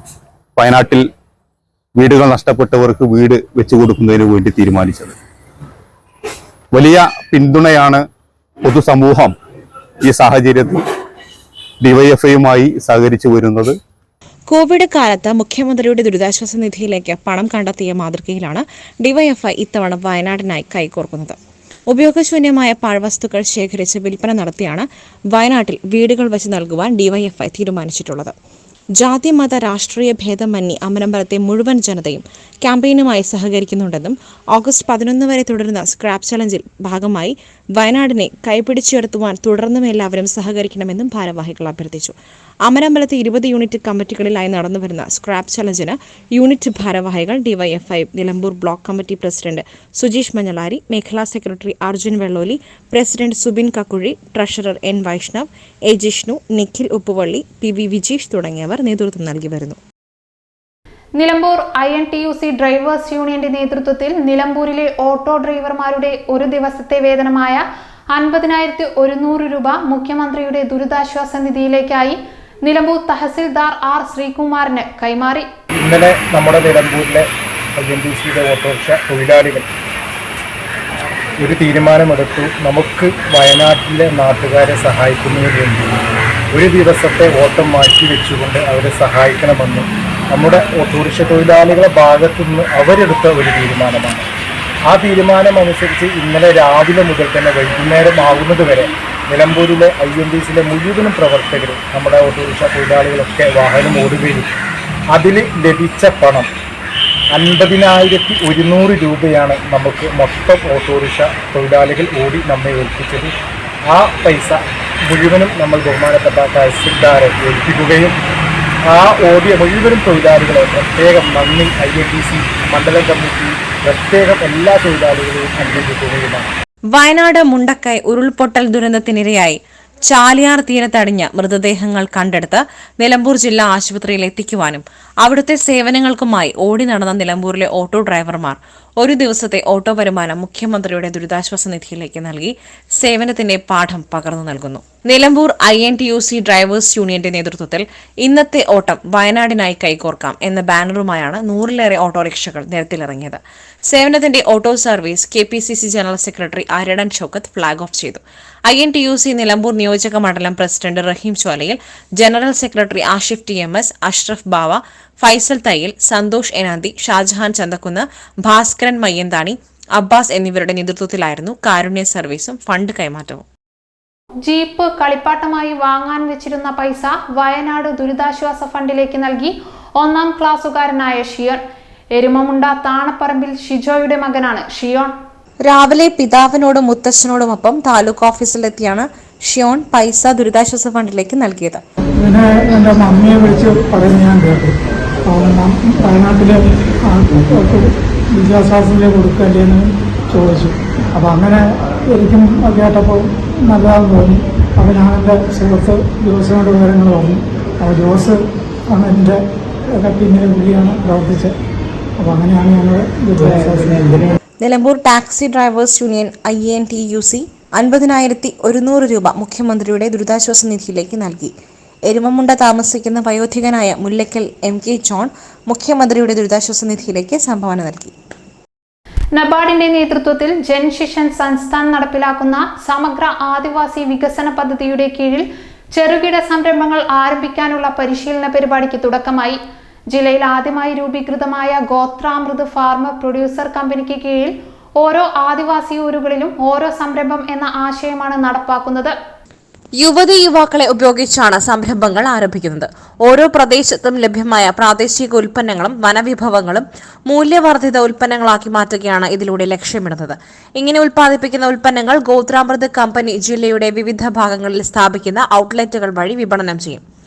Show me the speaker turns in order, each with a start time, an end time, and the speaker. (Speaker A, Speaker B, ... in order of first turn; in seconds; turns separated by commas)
Speaker A: 0.6-1.0, Speaker A: 2.0-5.2, Speaker A: 6.7-8.0, Speaker A: 8.6-9.3, Speaker A: 10.1-10.8, Speaker A: 11.8-13.8, Speaker B: 14.5-28.4, Speaker B: 29.0-59.8, Speaker C: 61.2-75.5, Speaker D: 75.8-77.3, Speaker D: 77.8-79.7, Speaker D: 81.4-85.9, Speaker D: 86.5-94.3, Speaker D: 94.9-104.5, Speaker D: 105.1-106.5, Speaker D: 107.3-113.3, Speaker D: 113.9-118.2, Speaker D: 118.9-126.5, Speaker B: 126.9-173.4, Speaker C: 174.4-181.6, Speaker C: 182.2-185.1, Speaker B: 185.6-191.8, Speaker E: 192.2-209.4, Speaker E: 209.9-211.6, Speaker E: 212.2-214.4, Speaker B: 214.6-221.5, Speaker B: 222.1-228.2, Speaker C: 229.3-239.6, Speaker C: 240.1-249.2, Speaker B: 250.0-267.0